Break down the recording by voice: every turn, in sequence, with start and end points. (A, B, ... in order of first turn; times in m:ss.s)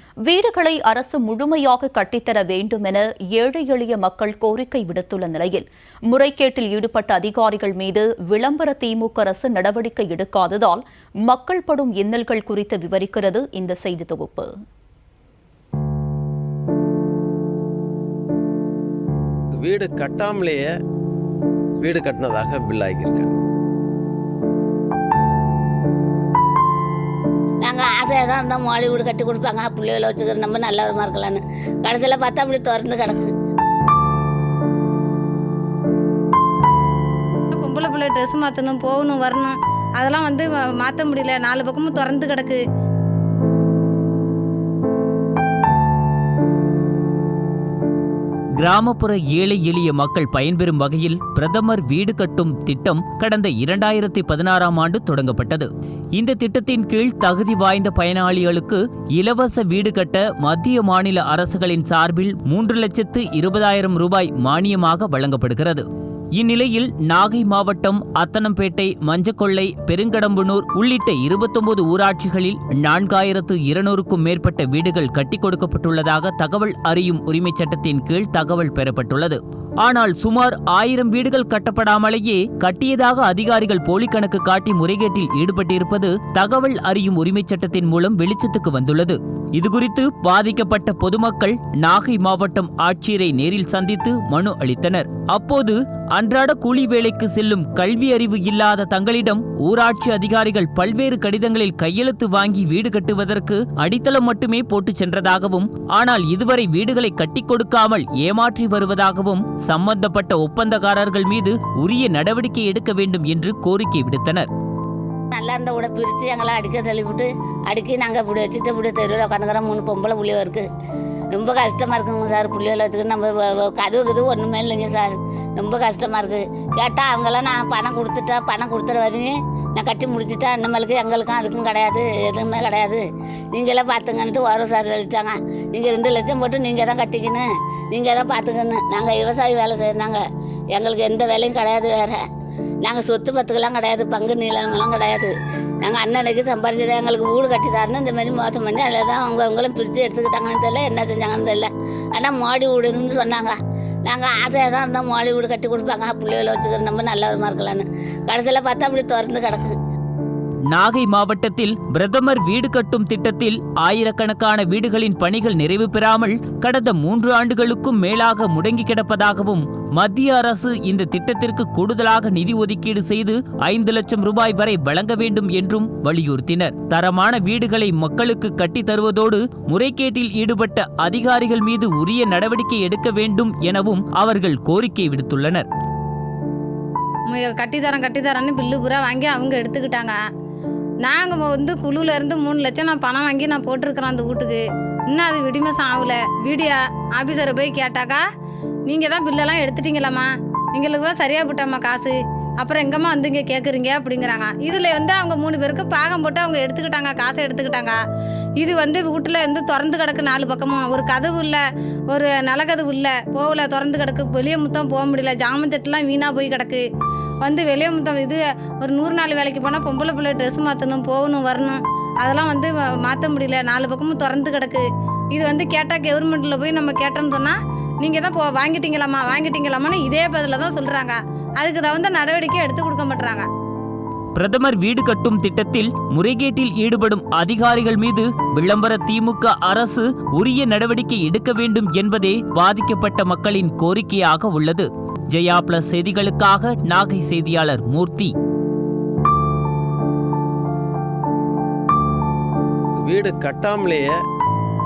0:00.3-0:14.5 A
0:19.6-0:20.7 B
0:21.8-0:23.3 B
0:27.6-0:33.3 C
0:37.5-0:42.6 D
0:48.6-1:05.8 E
1:06.4-1:54.5 E
1:55.3-2:00.7 C
2:01.3-2:20.2 C
2:20.7-2:22.2 C
2:22.8-2:25.3 C
2:25.8-2:39.8 C
2:40.7-3:05.7 E
3:07.3-3:10.2 D
3:11.0-3:18.2 D
3:18.9-3:28.0 D
3:28.6-3:36.8 D
3:37.4-3:53.5 D
3:54.4-4:08.3 E
4:13.1-4:14.1 B